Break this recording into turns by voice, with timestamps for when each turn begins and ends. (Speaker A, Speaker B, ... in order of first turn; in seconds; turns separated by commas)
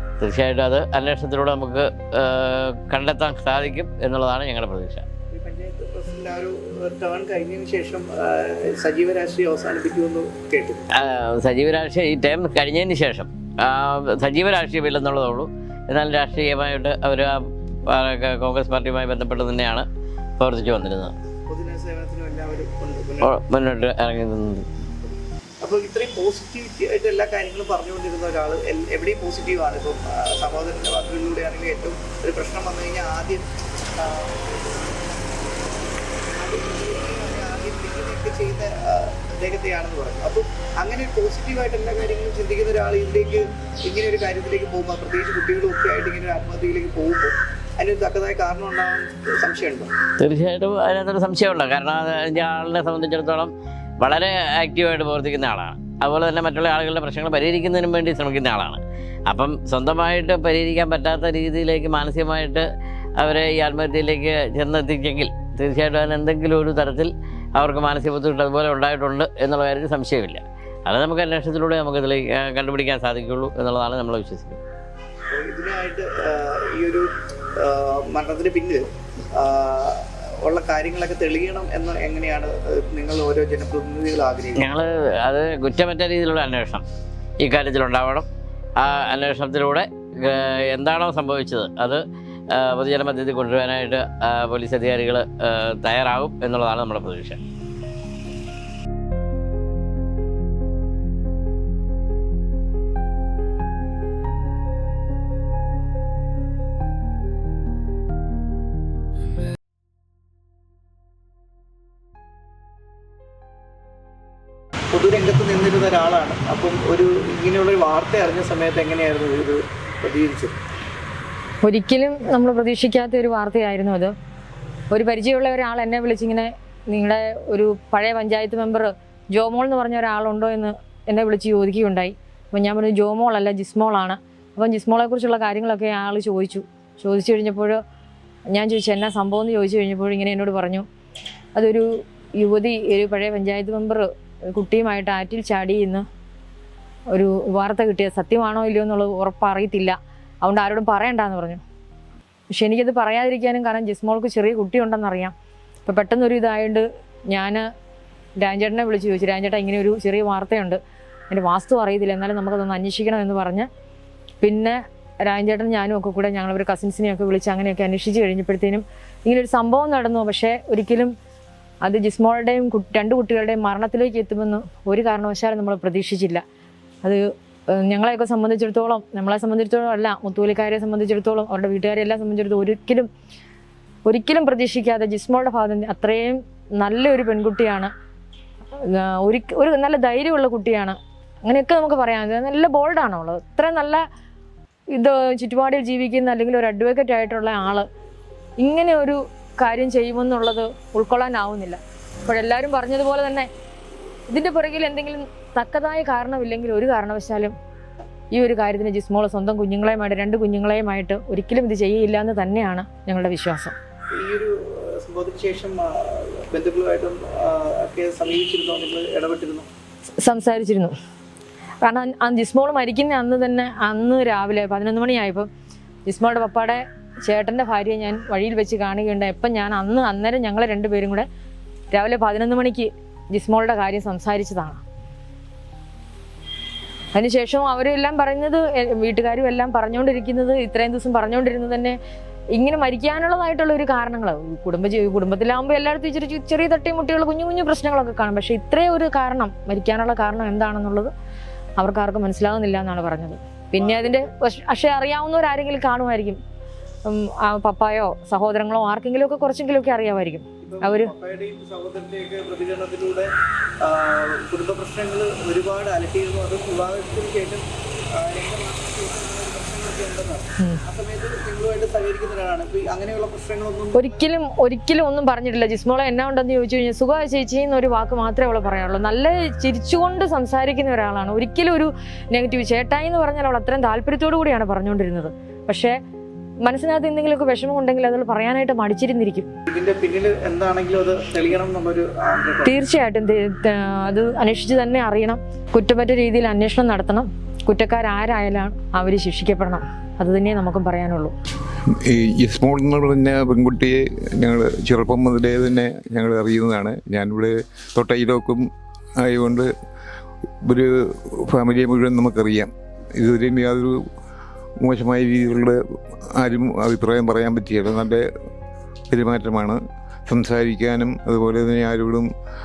Speaker A: 0.2-5.0, Speaker B: 5.3-10.8, Speaker A: 11.0-17.4, Speaker A: 17.9-19.8, Speaker A: 20.4-21.1, Speaker B: 21.5-23.3, Speaker A: 23.2-24.6, Speaker B: 25.1-33.5, Speaker B: 34.0-35.5, Speaker B: 36.3-49.9, Speaker A: 50.2-62.6, Speaker A: 63.2-74.6, Speaker B: 75.3-77.0, Speaker B: 77.6-78.8, Speaker B: 79.4-84.7, Speaker A: 84.6-86.8, Speaker A: 87.4-88.3, Speaker A: 88.8-92.0, Speaker A: 92.5-97.4, Speaker B: 114.9-120.6, Speaker C: 121.6-124.1, Speaker C: 124.9-137.8, Speaker C: 138.5-140.9, Speaker C: 141.6-141.8, Speaker C: 142.4-146.1, Speaker C: 147.1-151.6, Speaker C: 152.5-155.3, Speaker C: 155.9-157.6, Speaker C: 158.4-160.8, Speaker C: 161.3-163.7, Speaker C: 164.4-171.1, Speaker C: 171.8-176.4, Speaker C: 177.0-183.1, Speaker C: 184.1-187.9, Speaker C: 188.7-194.0, Speaker C: 194.9-197.8, Speaker C: 198.6-203.5, Speaker C: 204.3-207.6, Speaker C: 208.3-213.8, Speaker B: 214.2-219.7, Speaker C: 220.2-220.9, Speaker C: 221.8-225.5, Speaker C: 226.1-231.3, Speaker C: 231.9-234.8, Speaker C: 237.1-242.0, Speaker C: 242.6-251.1, Speaker C: 251.8-256.4, Speaker B: 253.8-254.3, Speaker C: 257.1-261.1, Speaker B: 260.6-263.3, Speaker B: 263.8-267.6, Speaker B: 268.2-274.2, Speaker C: 273.9-286.0, Speaker C: 286.6-289.5, Speaker B: 289.7-292.7, Speaker C: 292.7-301.3, Speaker D: 302.1-308.6, Speaker D: 309.2-309.7, Speaker D: 310.6-313.9, Speaker D: 314.8-315.8, Speaker D: 316.4-318.2, Speaker D: 319.1-322.3